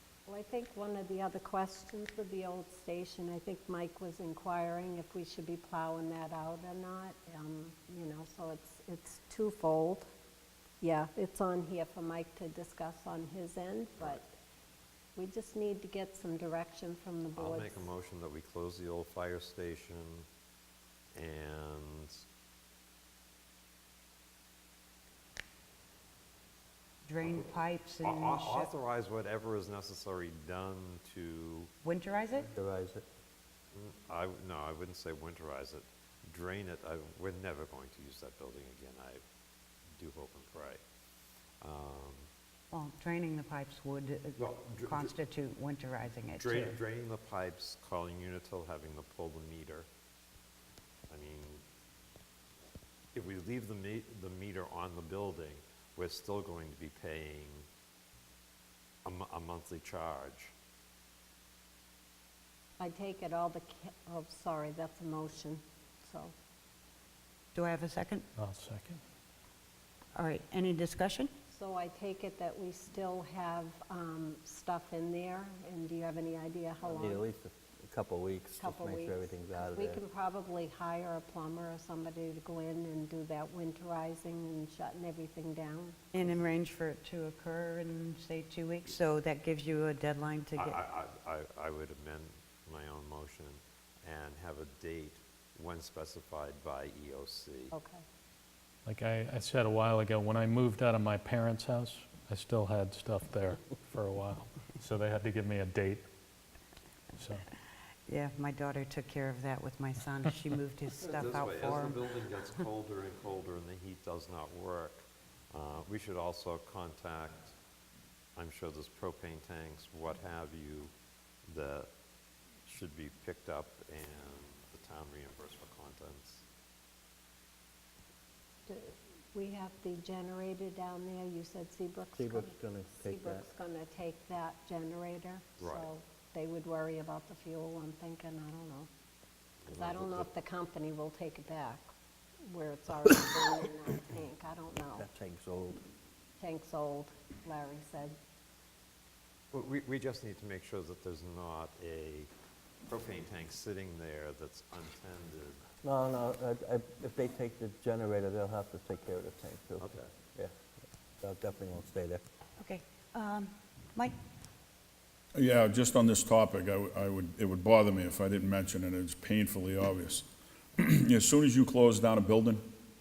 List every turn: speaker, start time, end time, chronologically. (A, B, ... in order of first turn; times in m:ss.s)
0:00.3-0:10.1 A
0:10.8-0:14.4 A
0:15.2-0:17.9 A
0:17.4-0:20.3 B
0:21.2-0:22.2 B
0:27.1-0:28.7 C
0:27.2-0:27.5 B
0:28.0-0:31.7 B
0:31.8-0:32.5 C
0:32.5-0:33.0 D
0:33.7-0:39.2 B
0:40.0-0:40.8 B
0:41.6-0:42.3 B
0:42.7-0:46.7 C
0:44.4-0:45.1 B
0:46.4-0:49.9 B
0:51.1-0:51.6 B
0:53.1-0:57.7 B
0:59.0-1:00.5 B
1:02.8-1:06.3 A
1:07.5-1:08.2 C
1:08.4-1:09.0 E
1:10.1-1:11.3 C
1:11.5-1:17.3 A
1:16.9-1:20.0 D
1:18.6-1:26.0 A
1:26.1-1:30.8 C
1:30.6-1:37.7 B
1:37.7-1:38.0 A
1:38.9-1:46.0 E
1:47.2-1:47.5 E
1:48.1-1:52.0 C
1:51.0-1:55.0 B
1:55.5-1:57.6 B
1:58.4-2:00.9 B
2:01.5-2:01.9 B
2:02.7-2:06.4 B
2:08.7-2:18.9 A
2:12.2-2:13.4 D
2:15.6-2:15.9 B
2:19.6-2:20.3 B
2:19.7-2:21.9 A
2:22.5-2:25.1 A
2:25.0-2:25.8 D
2:26.4-2:28.2 A
2:29.5-2:32.3 B
2:32.9-2:35.6 B
2:35.8-2:40.6 D
2:39.8-2:40.1 B
2:41.2-2:42.2 D
2:42.6-2:44.1 C
2:45.4-2:52.7 F